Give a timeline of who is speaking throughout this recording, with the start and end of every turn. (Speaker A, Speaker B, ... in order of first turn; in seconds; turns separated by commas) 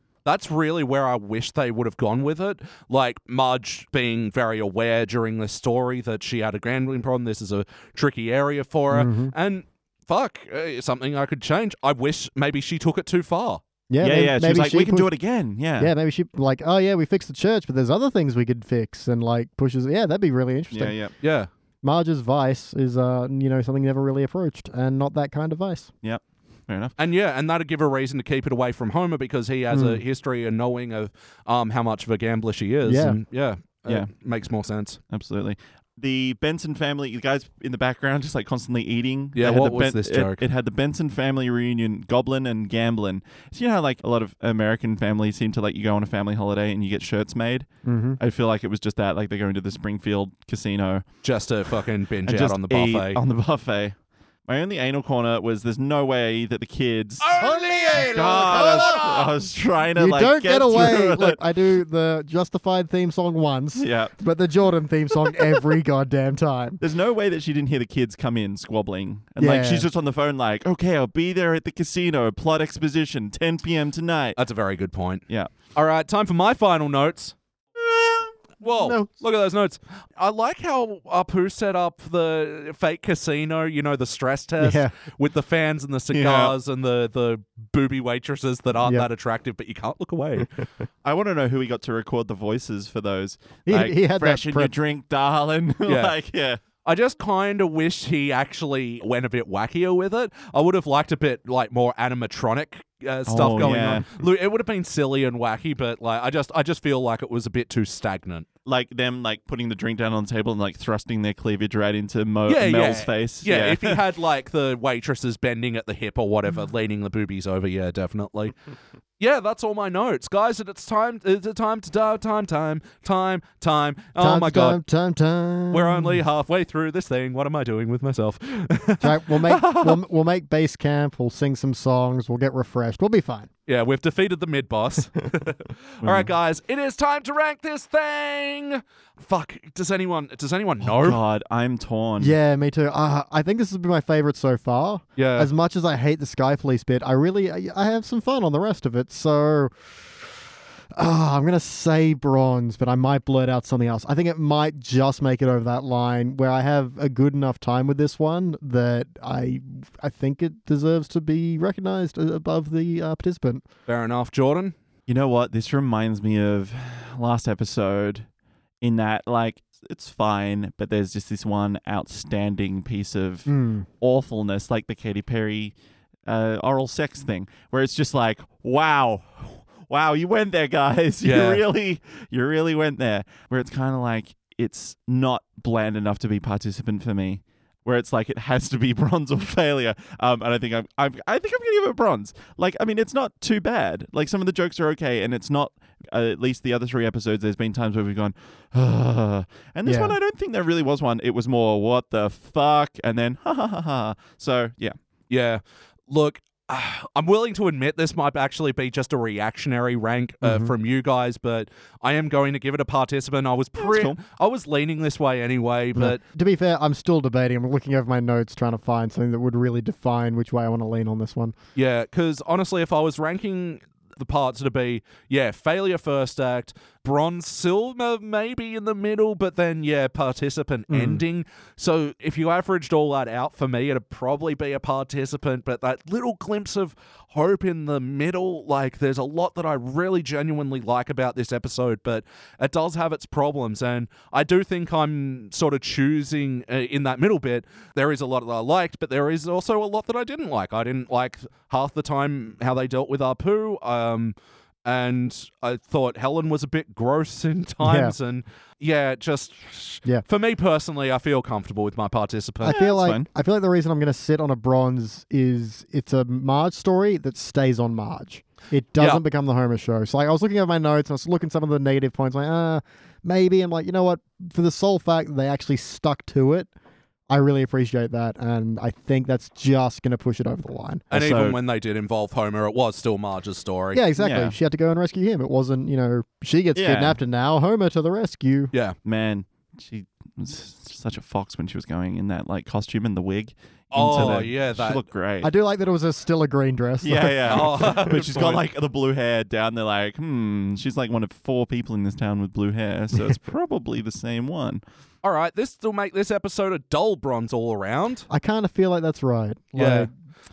Speaker A: 0.2-13.6, Speaker B: 8.9-9.3, Speaker B: 13.9-15.1, Speaker C: 14.0-15.9, Speaker B: 15.8-21.0, Speaker C: 20.7-21.1, Speaker A: 21.2-21.5, Speaker B: 21.8-25.9, Speaker C: 26.0-26.9, Speaker A: 27.0-35.0, Speaker B: 29.7-30.0, Speaker B: 32.9-33.2, Speaker C: 35.1-47.7, Speaker A: 39.4-40.4, Speaker B: 47.9-48.2, Speaker C: 48.2-51.1, Speaker A: 51.2-53.2, Speaker C: 52.2-57.4, Speaker A: 57.2-59.3, Speaker B: 57.4-59.1, Speaker C: 58.1-61.4, Speaker B: 60.0-66.8, Speaker C: 63.8-64.2, Speaker C: 66.8-74.4, Speaker B: 69.4-69.9, Speaker A: 74.4-77.3, Speaker A: 78.6-90.6, Speaker B: 78.7-79.1, Speaker B: 84.6-84.9, Speaker C: 86.1-86.5, Speaker C: 91.0-96.6, Speaker B: 93.7-94.7, Speaker A: 95.8-96.2, Speaker A: 96.8-108.5, Speaker C: 103.3-104.1, Speaker C: 108.7-114.0, Speaker A: 112.5-118.6, Speaker A: 119.2-124.8, Speaker B: 124.2-126.2, Speaker A: 125.7-130.0, Speaker B: 129.0-133.5, Speaker A: 133.7-141.2, Speaker C: 136.0-136.3, Speaker C: 140.8-142.3, Speaker B: 142.2-149.7, Speaker A: 145.2-145.5, Speaker B: 150.9-163.7, Speaker A: 163.9-164.7, Speaker C: 165.1-168.3, Speaker C: 168.8-175.8, Speaker B: 173.5-173.9, Speaker C: 176.3-204.9, Speaker A: 181.2-181.6, Speaker B: 199.9-200.2, Speaker A: 205.3-216.2, Speaker B: 210.4-210.7, Speaker C: 213.8-214.2, Speaker B: 215.9-221.5, Speaker A: 221.8-262.8, Speaker B: 230.9-231.2, Speaker B: 257.8-258.1, Speaker B: 262.6-276.7, Speaker C: 262.7-263.3, Speaker A: 269.0-269.2, Speaker B: 277.3-281.1, Speaker C: 281.1-281.6, Speaker A: 281.1-284.5, Speaker B: 283.9-288.7, Speaker C: 286.8-287.2, Speaker C: 289.0-295.5, Speaker A: 293.9-295.1, Speaker B: 295.4-298.1, Speaker C: 297.0-304.8, Speaker A: 297.4-298.6, Speaker A: 305.2-308.3, Speaker B: 308.3-310.1, Speaker A: 309.8-310.1